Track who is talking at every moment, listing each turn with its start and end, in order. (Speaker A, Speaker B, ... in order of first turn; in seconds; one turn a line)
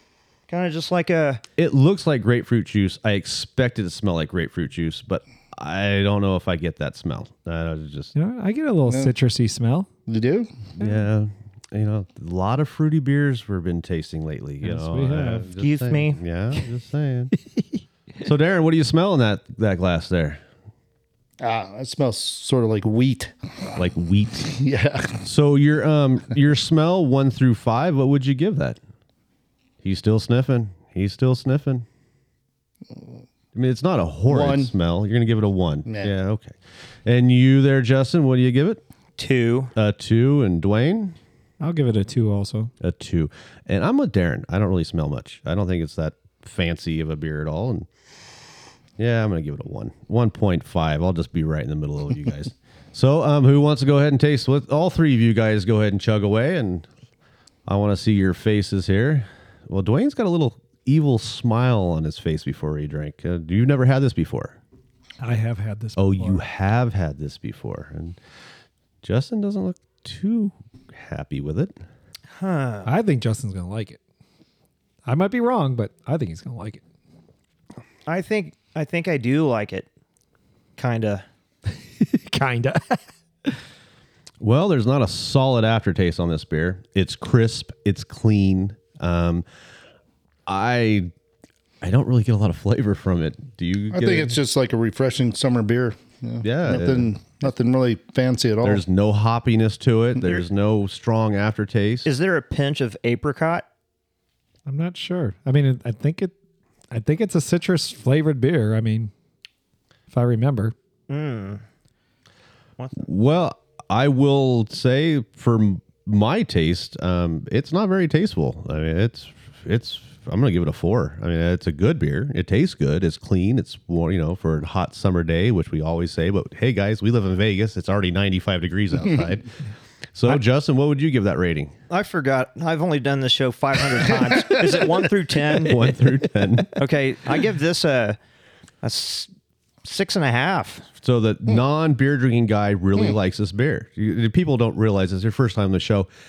Speaker A: 0.5-1.4
Speaker B: 1.6-8.1
Speaker C: 8.1-9.9
Speaker D: 8.9-9.1
Speaker D: 10.1-10.5
Speaker B: 10.8-17.3
Speaker C: 14.6-15.5
Speaker A: 15.6-16.2
Speaker B: 18.2-20.4
Speaker D: 21.4-23.3
Speaker B: 23.8-24.6
Speaker D: 24.5-25.2
Speaker B: 25.2-28.8
Speaker B: 29.8-31.9
Speaker B: 33.5-38.8
Speaker D: 34.3-34.7
Speaker D: 35.9-36.1
Speaker A: 39.2-39.7
Speaker B: 39.7-41.1
Speaker C: 41.6-42.7
Speaker B: 42.8-47.9
Speaker B: 49.0-56.9
Speaker B: 57.6-64.6
Speaker C: 65.2-66.4
Speaker B: 66.0-68.2
Speaker B: 69.0-71.7
Speaker A: 72.3-72.9
Speaker C: 72.8-74.0
Speaker C: 75.0-76.8
Speaker A: 78.1-79.9
Speaker A: 80.8-81.2
Speaker C: 82.0-83.5
Speaker B: 84.4-89.4
Speaker B: 90.5-91.1
Speaker B: 91.8-94.3
Speaker D: 93.9-98.8
Speaker B: 96.4-97.1
Speaker B: 98.6-102.1
Speaker A: 102.0-103.6
Speaker C: 104.7-106.3
Speaker C: 106.9-109.1
Speaker C: 110.1-110.7
Speaker A: 111.1-111.6
Speaker B: 113.0-129.5
Speaker B: 130.1-131.7
Speaker A: 131.9-136.0
Speaker B: 135.5-136.7
Speaker A: 136.7-138.2
Speaker A: 138.8-139.3
Speaker A: 139.8-140.8
Speaker B: 141.0-146.1